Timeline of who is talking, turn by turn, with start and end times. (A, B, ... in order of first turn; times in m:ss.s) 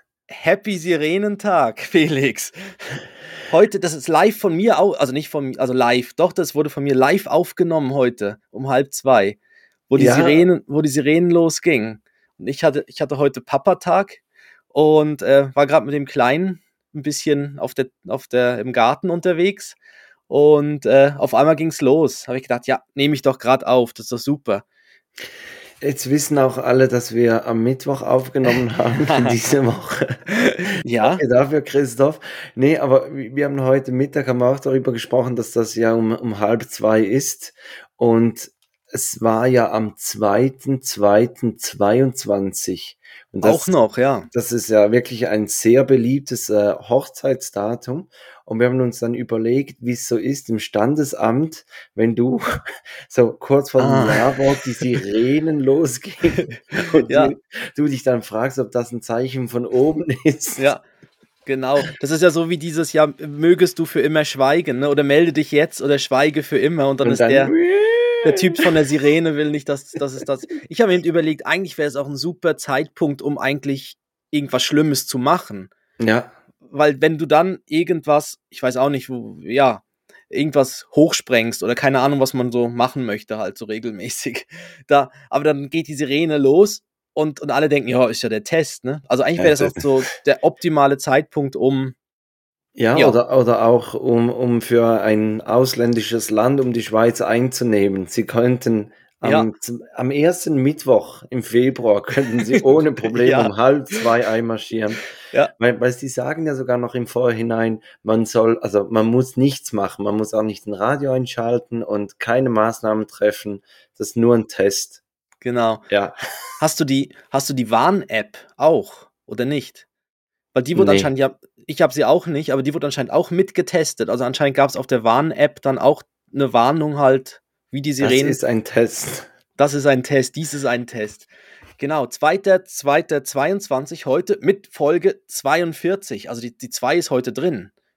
0:00.3-0:09.4 A
0:09.9-0:14.2 A
0:09.9-0:10.5 B
0:14.7-0:19.8 A
0:20.3-0:24.6 A
0:25.8-0:43.7 B
0:29.0-0:29.3 A
0:30.3-0:31.2 A
0:43.4-0:44.3 A
0:44.3-0:52.4 B
0:53.0-1:00.7 B
0:53.8-0:54.4 A
0:56.8-0:57.3 A
1:00.6-1:00.8 A
1:01.4-1:07.5 A
1:07.0-1:08.7 B
1:08.2-1:15.7 A
1:16.0-1:16.3 B
1:16.7-1:31.9 A
1:29.4-1:29.8 B
1:32.8-1:45.0 B
1:39.2-1:39.5 A
1:42.5-1:44.0 A
1:45.6-1:55.0 B
1:55.4-1:55.8 A
1:55.9-1:56.2 B
1:56.6-1:59.8 A
2:00.5-2:08.4 A
2:00.7-2:01.1 B
2:08.0-2:09.3 B
2:09.6-2:11.3 A
2:11.8-2:17.7 A